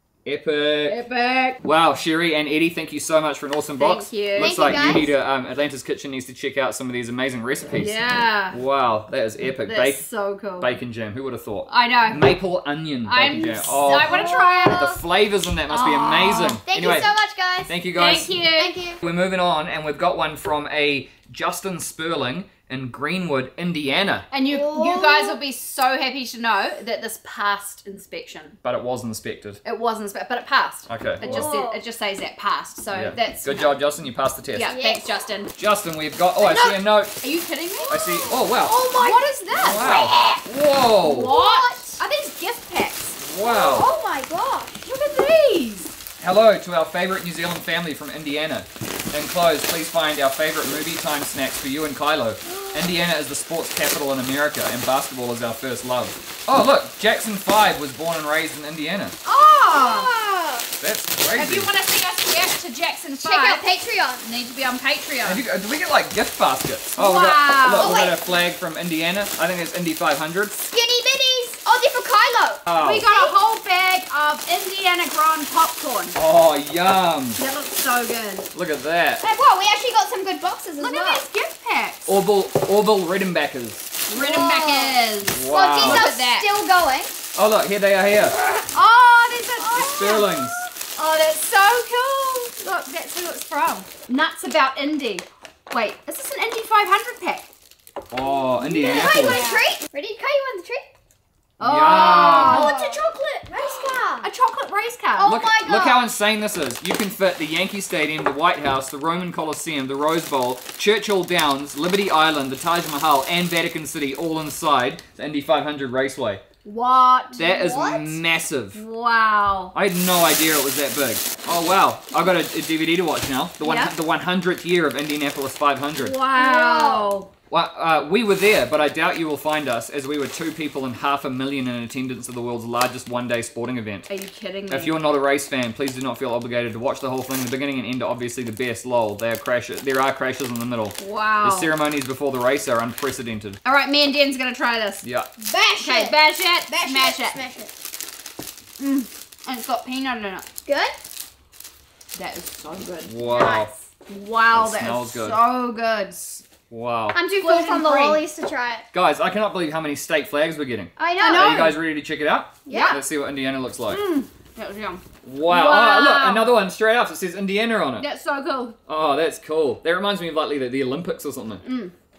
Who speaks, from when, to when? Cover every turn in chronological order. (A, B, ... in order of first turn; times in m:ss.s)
0:00.2-0:01.0 A
0:00.8-0:01.6 B
0:01.6-0:10.0 A
0:03.8-0:05.0 B
0:04.4-0:05.1 C
0:07.8-0:08.6 B
0:09.6-0:10.7 B
0:10.6-0:17.1 A
0:11.7-0:12.4 B
0:13.0-0:14.9 B
0:13.9-0:15.0 C
0:15.7-0:16.6 B
0:16.7-0:17.8 C
0:17.7-0:18.3 A
0:18.0-0:18.8 B
0:18.3-0:19.0 C
0:19.0-0:24.3 A
0:24.3-0:28.6 B
0:24.4-0:25.4 C
0:28.6-0:29.6 A
0:29.6-0:33.6 B
0:30.9-0:31.5 A
0:31.2-0:31.8 C
0:32.9-0:34.7 A
0:34.5-0:35.5 B
0:34.7-0:35.1 C
0:35.6-0:37.2 A
0:36.4-0:38.4 B
0:37.9-0:38.8 A
0:38.6-0:40.4 C
0:38.9-0:40.1 B
0:39.5-0:41.3 A
0:41.0-0:42.0 C
0:41.0-0:43.2 B
0:43.2-0:43.9 A
0:43.4-0:44.9 C
0:44.8-0:45.9 B
0:46.2-0:59.2 A
0:59.2-1:00.1 B
0:59.7-1:00.7 C
1:00.8-1:01.7 A
1:01.3-1:03.6 B
1:03.2-1:04.2 C
1:04.2-1:05.4 B
1:05.2-1:10.5 A
1:07.0-1:08.0 B
1:07.7-1:08.2 C
1:10.6-1:13.4 C
1:12.6-1:13.0 A
1:12.7-1:16.2 B
1:16.1-1:17.4 A
1:17.4-1:18.5 B
1:18.5-1:19.2 A
1:19.2-1:21.2 C
1:20.8-1:22.1 B
1:22.0-1:24.0 A
1:24.1-1:26.5 B
1:24.1-1:27.1 C
1:25.3-1:26.1 A
1:27.3-1:28.4 A
1:28.7-1:37.5 B
1:29.7-1:30.6 A
1:38.1-1:39.4 A
1:38.6-1:40.9 C
1:38.8-1:39.6 B
1:41.6-1:45.4 B
1:41.6-1:42.8 A
1:41.8-1:44.3 C
1:45.2-1:46.0 C
1:45.2-1:56.4 A
1:56.6-1:57.4 B
1:57.4-1:58.2 C
1:57.4-1:58.8 A
1:58.7-1:59.7 B
1:59.7-2:06.2 A
2:03.6-2:03.9 B
2:06.0-2:07.3 B
2:06.3-2:07.2 C
2:07.5-2:14.1 A
2:14.1-2:15.0 B
2:14.7-2:23.6 A
2:21.0-2:21.7 B
2:23.6-2:25.0 B
2:25.0-2:25.3 A
2:25.4-2:26.2 C
2:25.8-2:27.4 B
2:26.7-2:27.7 C
2:28.8-2:30.4 B
2:30.6-2:30.9 C
2:32.1-2:36.2 B
2:33.0-2:33.7 A
2:33.3-2:33.7 C
2:34.5-2:35.4 A
2:36.4-2:37.2 A
2:37.1-2:38.8 C
2:37.4-2:38.2 B
2:38.9-2:44.0 A
2:41.0-2:41.7 C
2:41.2-2:41.8 B
2:42.6-2:43.0 C
2:42.7-2:43.0 B
2:43.9-2:46.5 B
2:45.2-2:48.1 A
2:48.0-2:48.8 B
2:48.9-2:51.6 A
2:51.6-2:51.9 B